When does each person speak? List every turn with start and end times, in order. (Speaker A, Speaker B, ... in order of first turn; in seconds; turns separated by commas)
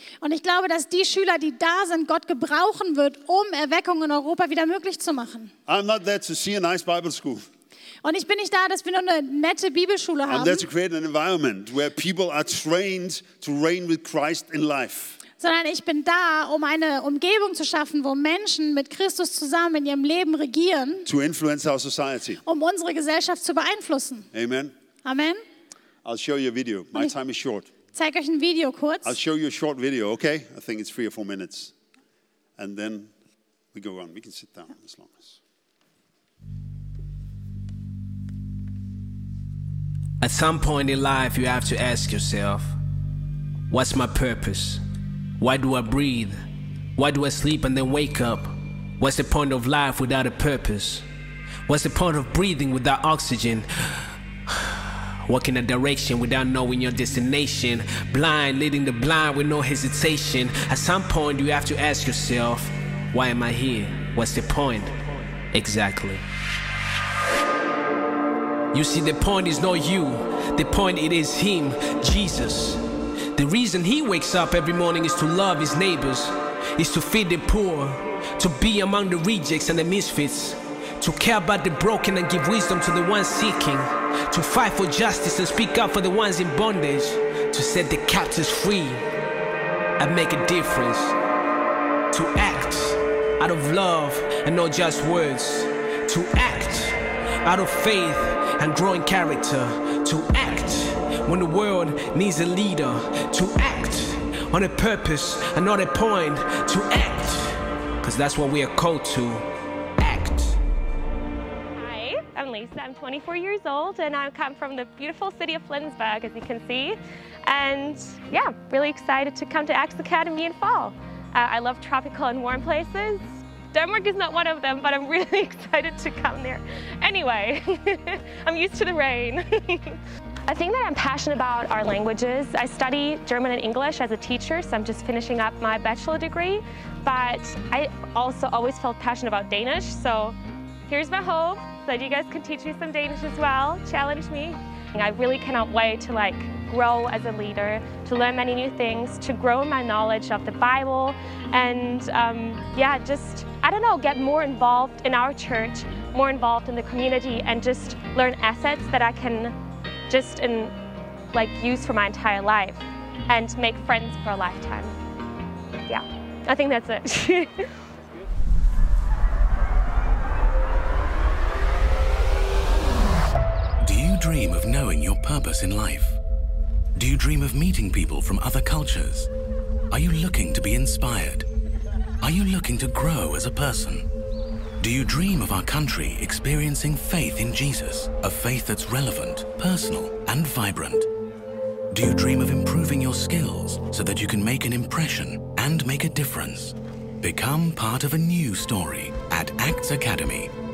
Speaker A: 0.2-5.5, Speaker B: 5.7-7.5, Speaker A: 8.0-10.7, Speaker B: 10.3-15.2, Speaker A: 15.4-21.1, Speaker B: 21.1-22.4, Speaker A: 22.4-24.3, Speaker B: 24.3-24.7, Speaker A: 25.0-25.4, Speaker B: 26.1-27.7, Speaker A: 27.9-29.1, Speaker B: 29.1-31.7, Speaker B: 32.6-33.1, Speaker B: 33.7-35.4, Speaker C: 40.2-42.8, Speaker C: 43.7-44.8, Speaker C: 45.4-46.4, Speaker C: 47.0-51.1, Speaker C: 51.7-53.7, Speaker C: 54.5-54.7, Speaker C: 55.2-65.0, Speaker C: 65.5-66.2, Speaker C: 68.7-89.1, Speaker C: 90.0-91.2, Speaker C: 92.1-110.6, Speaker D: 111.8-140.4, Speaker D: 140.9-159.6, Speaker D: 160.1-160.7, Speaker D: 161.3-164.9, Speaker D: 165.9-167.7, Speaker E: 173.8-176.2, Speaker E: 176.9-179.3, Speaker E: 179.9-181.5, Speaker E: 182.2-184.1, Speaker E: 184.8-191.1, Speaker E: 191.9-200.5